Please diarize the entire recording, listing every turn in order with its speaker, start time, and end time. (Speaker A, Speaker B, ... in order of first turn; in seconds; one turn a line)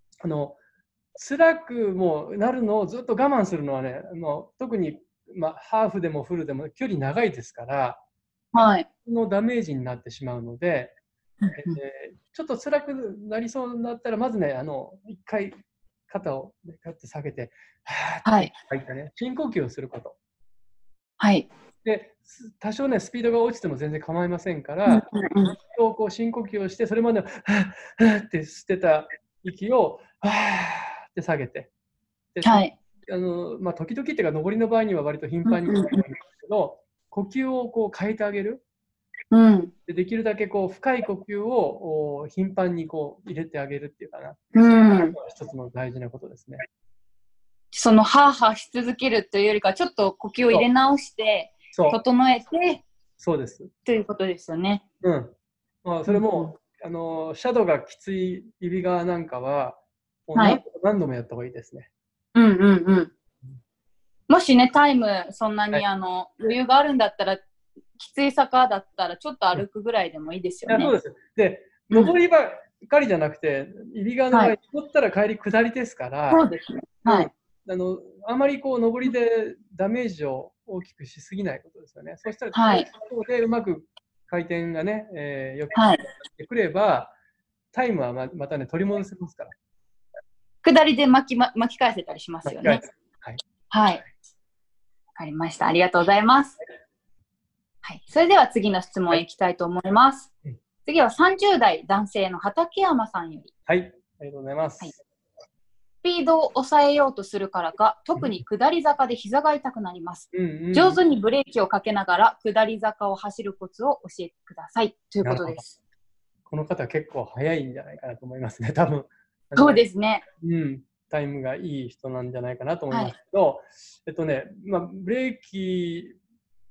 Speaker A: 0.2-0.6
Speaker A: 1.1-8.0
Speaker B: 8.5-8.9
Speaker A: 9.1-11.0
Speaker B: 11.5-11.8
Speaker A: 11.6-20.2
Speaker B: 18.2-18.5
Speaker B: 21.2-21.5
Speaker A: 21.8-25.1
Speaker B: 24.9-25.6
Speaker A: 25.7-31.7
Speaker A: 32.4-38.6
Speaker B: 32.4-32.7
Speaker B: 35.5-36.0
Speaker B: 39.3-39.7
Speaker A: 39.9-44.4
Speaker B: 44.5-45.2
Speaker A: 45.1-46.6
Speaker B: 47.7-52.8
Speaker A: 51.7-52.0
Speaker A: 53.2-53.7
Speaker B: 53.9-54.8
Speaker A: 55.0-55.3
Speaker A: 55.8-61.9
Speaker B: 56.1-56.5
Speaker B: 60.4-60.6
Speaker B: 62.4-63.1
Speaker B: 64.3-67.4
Speaker B: 68.0-70.9
Speaker A: 70.7-76.5
Speaker B: 76.3-77.3
Speaker A: 77.0-87.1
Speaker B: 82.5-82.9
Speaker B: 85.7-86.0
Speaker A: 87.7-89.5
Speaker B: 90.6-92.8
Speaker A: 92.5-93.4
Speaker B: 93.7-94.0
Speaker B: 95.2-96.6
Speaker B: 97.8-100.3
Speaker B: 100.9-103.5
Speaker A: 103.7-105.0
Speaker B: 106.0-115.8
Speaker A: 110.3-111.0
Speaker A: 115.2-115.6
Speaker A: 116.5-119.8
Speaker B: 119.6-120.2
Speaker A: 120.4-126.2